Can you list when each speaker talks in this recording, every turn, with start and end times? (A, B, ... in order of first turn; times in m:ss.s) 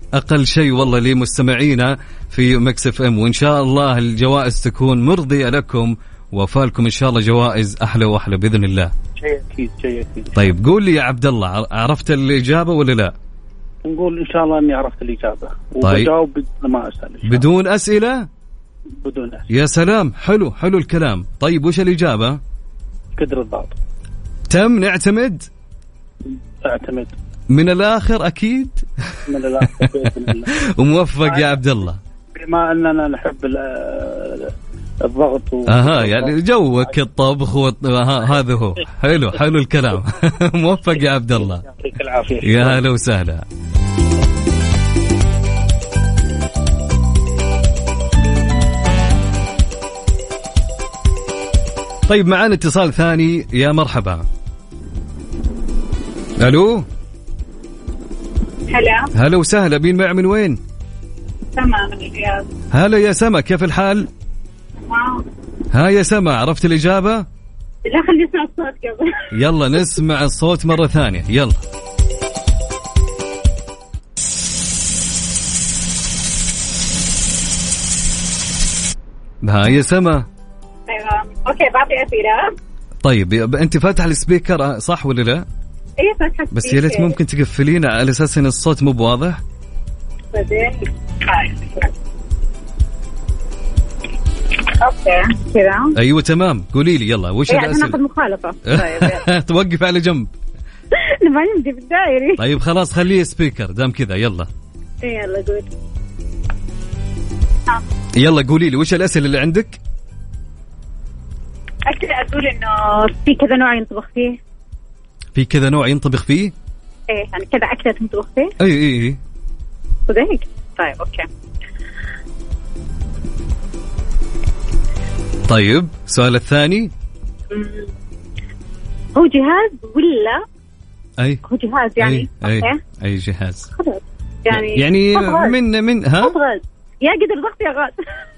0:00.1-0:08.9 A
0:09.2-0:10.5 B
0:10.4-0:13.1 A
0:13.8-0:17.5 B
0:15.8-0:16.1 A
0:17.3-0:18.3 A
0:19.0-0:19.5 B
0:19.5-0:22.4 A
0:23.2-0:23.8 B
0:24.5-0:25.5 A
0:26.6-0:27.1 B
0:27.5-0:29.2 A
0:29.3-0:30.5 B
0:29.7-0:32.0 A
0:31.2-0:31.6 B
0:32.3-0:34.5 B
0:35.0-0:36.9 B
0:35.7-0:41.6 A
0:41.4-0:42.8 B
0:42.4-0:43.4 A
0:52.1-0:54.2 A
0:56.4-0:56.9 A
0:58.7-0:59.1 C
0:59.1-1:00.6 A
1:01.6-1:02.4 C
1:02.7-1:04.1 A
1:04.9-1:05.2 C
1:05.7-1:07.2 A
1:07.8-1:09.3 C
1:09.3-1:11.6 A
1:19.4-1:20.2 A
1:20.9-1:22.5 C
1:23.0-1:25.4 A
1:26.0-1:27.1 C
1:26.5-1:29.4 A
1:30.3-1:31.9 C
1:34.8-1:35.9 C
1:35.9-1:38.0 A
1:37.5-1:39.3 C
1:38.7-1:40.3 A
1:40.9-1:42.4 C
1:42.4-1:44.5 A
1:45.0-1:45.7 C
1:48.2-1:49.8 A
1:51.9-1:54.4 C
1:55.3-1:56.5 A
1:57.1-1:58.5 C
1:58.6-1:59.2 A
2:00.1-2:01.3 C
2:05.5-2:06.9 A
2:07.5-2:07.9 C
2:09.1-2:10.4 C
2:11.4-2:12.8 C
2:12.0-2:13.7 A
2:13.8-2:15.6 C
2:14.5-2:16.4 A
2:16.2-2:18.0 C